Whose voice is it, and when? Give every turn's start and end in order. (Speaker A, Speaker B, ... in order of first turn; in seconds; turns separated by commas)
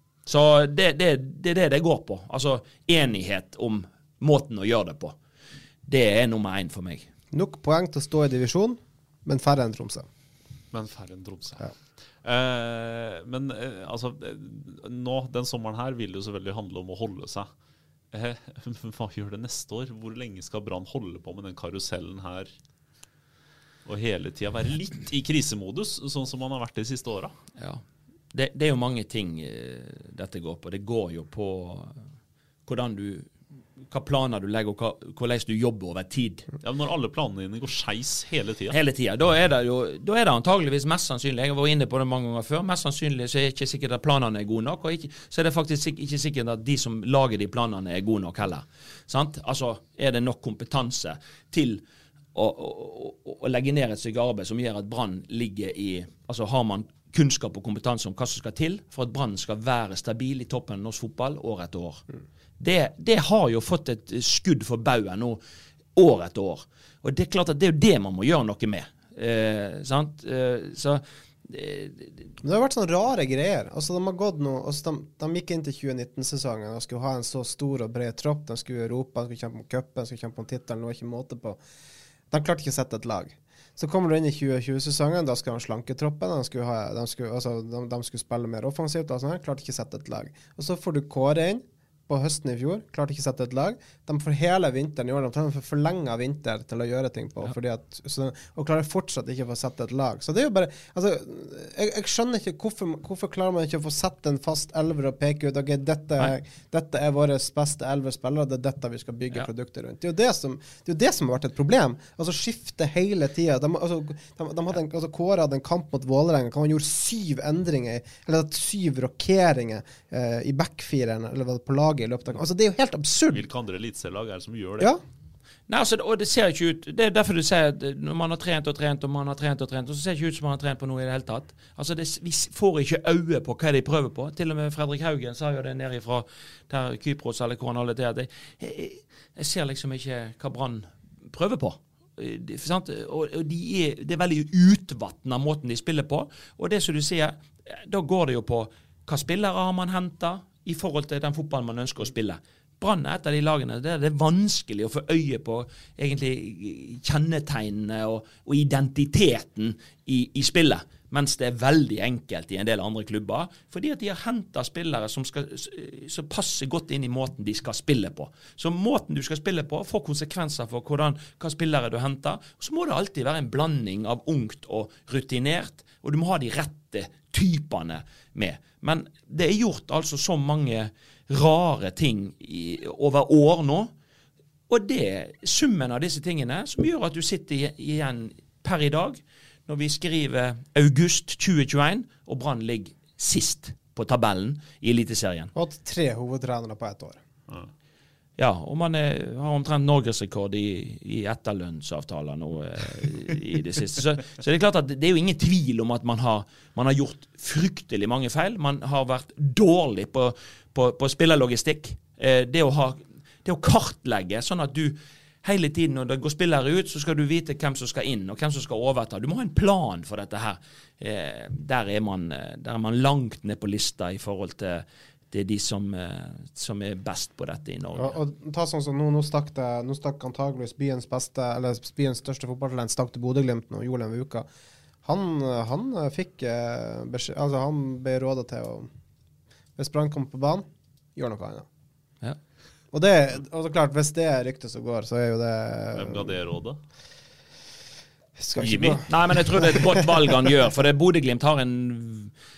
Speaker A: 0.3-5.2, Speaker A: 5.9-7.1, Speaker B: 7.3-10.1, Speaker C: 10.7-17.5, Speaker C: 18.1-22.5, Speaker C: 23.9-27.4, Speaker A: 27.6-32.0, Speaker A: 32.7-33.3, Speaker A: 33.9-36.5, Speaker C: 36.6-38.8, Speaker A: 38.7-51.8, Speaker A: 52.3-62.0, Speaker A: 62.6-65.4, Speaker A: 66.0-72.3, Speaker B: 72.4-81.6, Speaker B: 82.3-123.5, Speaker C: 123.3-124.9, Speaker A: 125.7-183.9, Speaker A: 184.7-195.5, Speaker B: 195.6-197.2, Speaker A: 198.4-228.2, Speaker B: 228.0-234.5, Speaker B: 235.0-238.9, Speaker B: 239.8-241.7, Speaker B: 242.9-246.3, Speaker C: 245.9-246.8, Speaker B: 248.4-250.0, Speaker C: 248.6-249.0, Speaker A: 249.1-252.3